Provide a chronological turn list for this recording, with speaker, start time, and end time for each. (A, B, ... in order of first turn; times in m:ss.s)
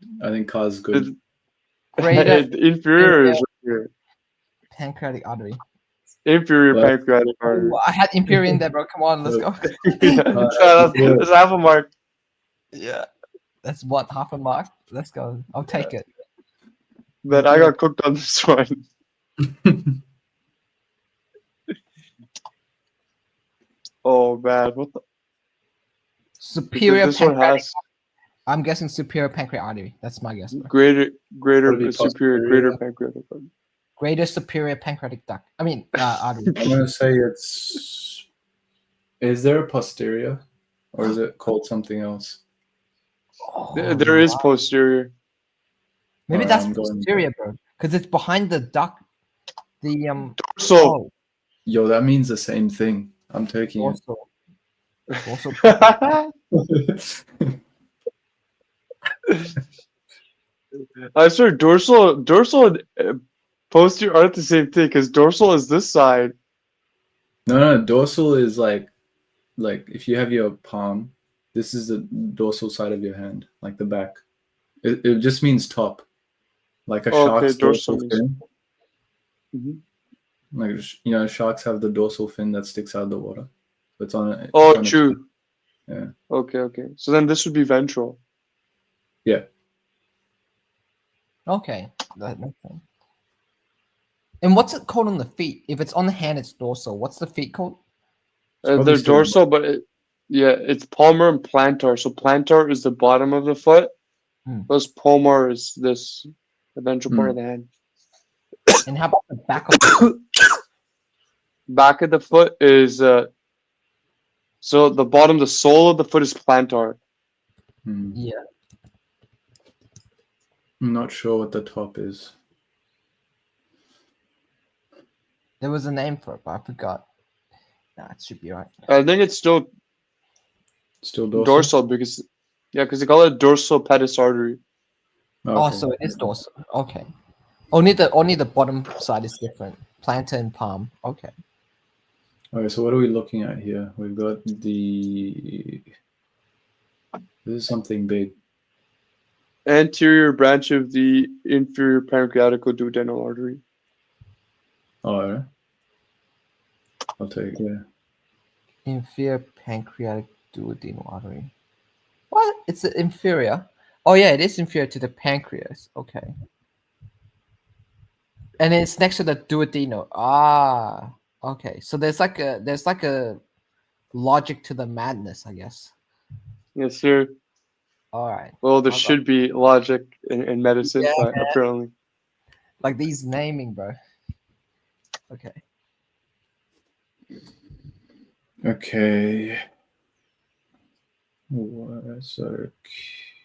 0:00.2-0:01.1 A
0:02.0-0:03.4 B
0:02.0-0:03.9 C
0:04.7-0:05.6 B
0:06.2-0:07.8 C
0:07.4-0:10.4 B
0:09.8-0:11.9 C
0:10.2-0:11.2 A
0:12.7-0:13.1 B
0:13.6-0:16.1 B
0:17.2-0:18.8 C
0:17.3-0:17.7 B
0:24.0-0:25.0 C
0:26.4-0:27.8 B
0:26.7-0:27.8 C
0:28.5-0:30.7 B
0:30.5-0:33.5 C
0:31.6-0:32.6 A
0:34.0-0:36.8 B
0:36.5-0:38.2 A
0:39.2-0:40.4 A
0:40.9-0:42.4 A
0:43.4-0:44.5 B
0:43.7-0:45.1 C
0:46.3-0:49.0 B
0:46.3-0:47.3 A
0:49.8-0:51.1 B
0:50.4-0:50.9 C
0:51.6-0:54.0 A
0:53.8-0:54.3 B
0:55.2-0:56.2 B
0:55.7-0:56.2 C
0:56.5-0:57.5 A
1:01.1-1:03.2 C
1:03.7-1:06.3 C
1:07.4-1:08.9 A
1:09.6-1:14.2 A
1:14.8-1:16.0 A
1:16.9-1:18.4 A
1:17.1-1:18.2 C
1:19.5-1:19.8 C
1:20.5-1:25.2 A
1:24.5-1:25.2 C
1:25.9-1:26.1 A
1:26.3-1:28.2 C
1:31.5-1:32.8 B
1:34.4-1:37.8 B
1:38.6-1:43.9 C
1:38.7-1:39.4 A
1:44.7-1:47.7 C
1:47.1-1:47.4 A
1:48.8-1:50.1 B
1:49.9-1:50.2 C
1:51.7-1:53.3 C
1:54.6-1:57.0 C
1:57.8-1:58.2 A
1:58.1-1:58.4 B
2:00.8-2:02.3 A
2:05.6-2:07.0 B
2:08.0-2:08.7 B
2:08.9-2:09.7 C
2:11.0-2:11.7 A
2:11.3-2:14.6 C
2:15.4-2:15.9 A
2:15.5-2:17.1 B
2:17.7-2:21.3 B
2:22.5-2:25.8 A
2:27.4-2:28.3 A
2:29.6-2:33.6 C
2:35.0-2:35.5 A
2:37.2-2:37.8 A
2:38.8-2:41.5 B
2:42.3-2:46.3 B
2:48.6-2:53.4 B
2:54.1-2:55.9 B
2:56.8-2:57.3 C
2:58.1-2:59.2 B
2:58.6-3:01.9 C
3:00.8-3:01.5 B
3:02.8-3:04.0 B
3:05.3-3:05.6 B
3:08.6-3:09.6 A
3:11.5-3:13.1 A